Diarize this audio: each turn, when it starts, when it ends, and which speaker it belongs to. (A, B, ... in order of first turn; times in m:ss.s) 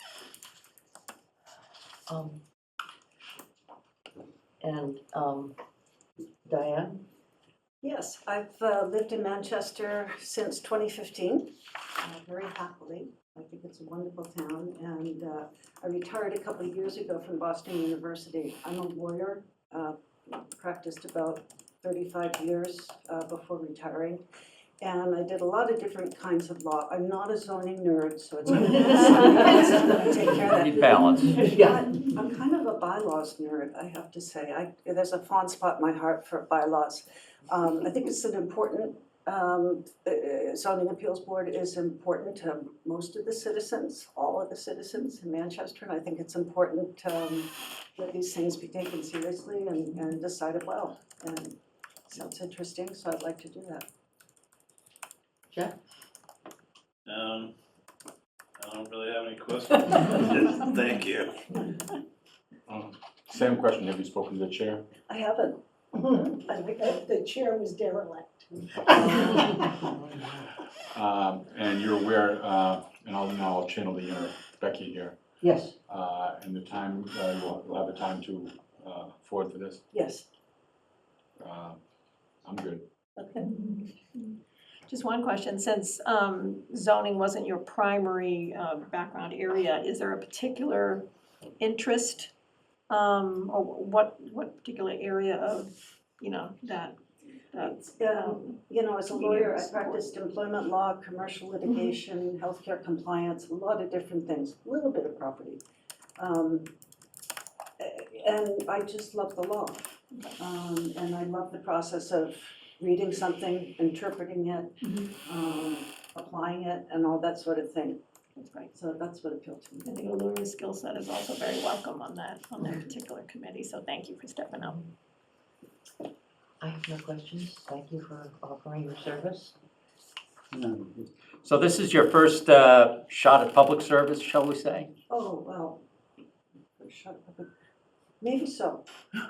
0:02.1-0:02.4 A
0:04.6-0:05.5 A
0:06.5-0:07.0 A
0:07.8-0:24.2 B
0:24.8-0:53.9 B
0:30.4-0:31.6 C
0:31.4-0:31.8 A
0:57.1-0:57.5 D
0:58.6-1:01.4 D
1:02.7-1:04.8 E
1:05.1-1:07.0 B
1:05.9-1:09.6 F
1:08.9-1:09.4 B
1:10.9-1:15.2 E
1:15.4-1:15.8 A
1:15.9-1:19.9 E
1:19.9-1:20.3 B
1:21.4-1:21.8 E
1:22.4-1:22.9 E
1:24.9-1:31.1 G
1:31.6-1:32.3 G
1:32.9-1:37.0 G
1:37.5-1:38.6 G
1:37.7-1:45.6 B
1:39.1-1:40.1 G
1:41.7-1:42.0 G
1:46.2-1:46.7 B
1:47.8-1:58.0 B
1:58.4-1:58.7 G
1:58.7-2:00.0 B
1:59.8-2:04.9 G
2:06.6-2:09.6 A
2:10.5-2:14.9 C
2:15.1-2:15.8 B
2:16.8-2:17.5 B
2:18.2-2:18.8 B